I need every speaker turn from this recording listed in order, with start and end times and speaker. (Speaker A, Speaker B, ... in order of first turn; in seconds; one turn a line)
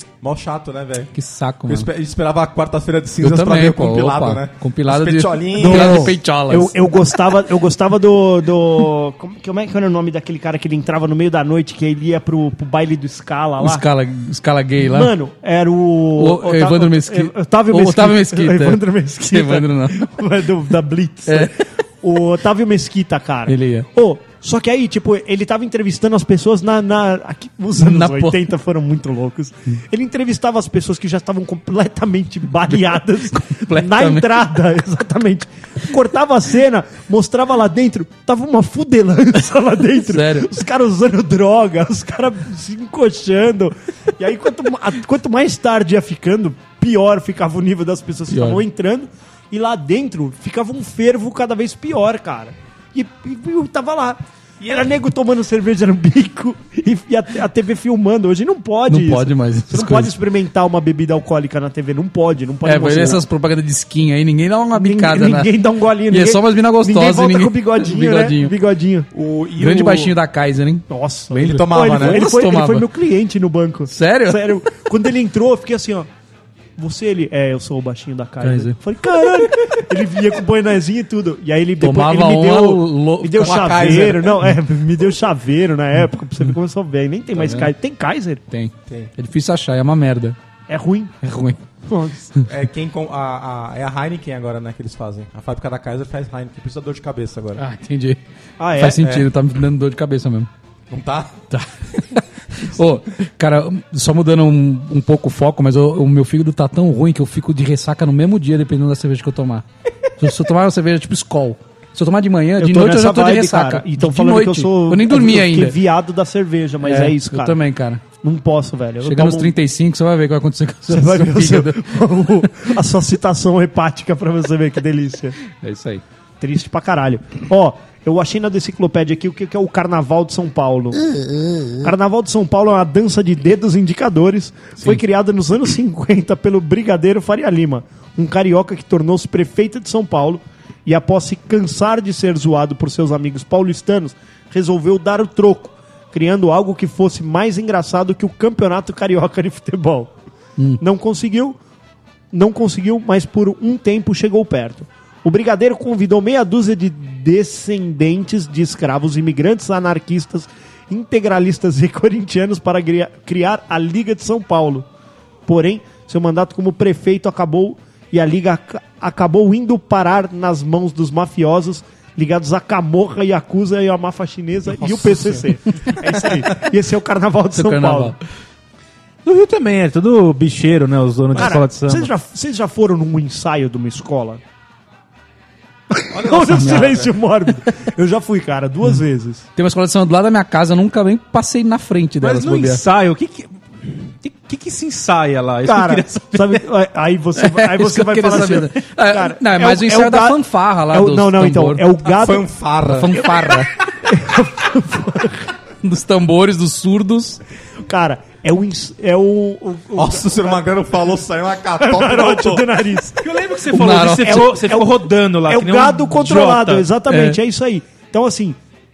Speaker A: 0.2-1.1
Speaker B: 1.1-1.9
Speaker A: 1.6-6.1
Speaker B: 3.2-6.7
Speaker C: 5.5-13.8
Speaker B: 13.6-15.1
Speaker C: 14.8-63.2
Speaker B: 16.2-20.0
Speaker B: 21.3-21.5
Speaker B: 23.5-23.9
Speaker B: 27.8-28.4
Speaker B: 33.3-34.2
Speaker B: 40.0-40.5
Speaker B: 48.3-48.6
Speaker B: 58.9-60.1
Speaker B: 62.6-65.5
Speaker C: 64.7-69.1
Speaker B: 66.1-68.5
Speaker A: 69.1-70.2
Speaker B: 69.6-72.8
Speaker C: 70.9-76.1
Speaker A: 71.4-72.3
Speaker B: 73.9-74.5
Speaker C: 76.8-88.4
Speaker B: 78.4-78.8
Speaker B: 81.8-83.9
Speaker A: 83.3-84.4
Speaker B: 87.3-87.7
Speaker B: 88.5-90.4
Speaker C: 90.7-91.1
Speaker B: 91.2-91.6
Speaker C: 91.8-92.3
Speaker A: 92.5-97.6
Speaker B: 97.6-98.2
Speaker C: 98.6-99.0
Speaker B: 98.8-100.5
Speaker A: 99.0-99.3
Speaker A: 100.9-101.4
Speaker B: 101.5-109.6
Speaker B: 110.2-115.7
Speaker C: 112.6-117.6
Speaker B: 116.8-118.0
Speaker C: 118.2-119.5
Speaker B: 119.0-121.8
Speaker C: 120.9-125.4
Speaker B: 125.5-126.0
Speaker C: 126.4-131.1
Speaker C: 131.7-150.1
Speaker C: 150.8-151.6
Speaker C: 152.3-164.8
Speaker C: 165.5-178.1
Speaker A: 174.7-176.4
Speaker B: 177.5-178.2
Speaker D: 179.2-182.1
Speaker C: 181.3-184.4
Speaker C: 185.9-189.4
Speaker A: 186.1-187.1
Speaker B: 189.6-192.8
Speaker D: 192.2-196.6
Speaker C: 195.6-202.5
Speaker B: 197.4-201.8
Speaker A: 202.1-203.2
Speaker B: 202.8-203.7
Speaker C: 203.4-205.5
Speaker B: 205.8-207.4
Speaker C: 207.9-210.7
Speaker A: 209.9-212.7
Speaker C: 211.8-213.3
Speaker D: 213.2-216.9
Speaker B: 213.7-214.5
Speaker C: 214.1-218.6
Speaker B: 217.1-217.4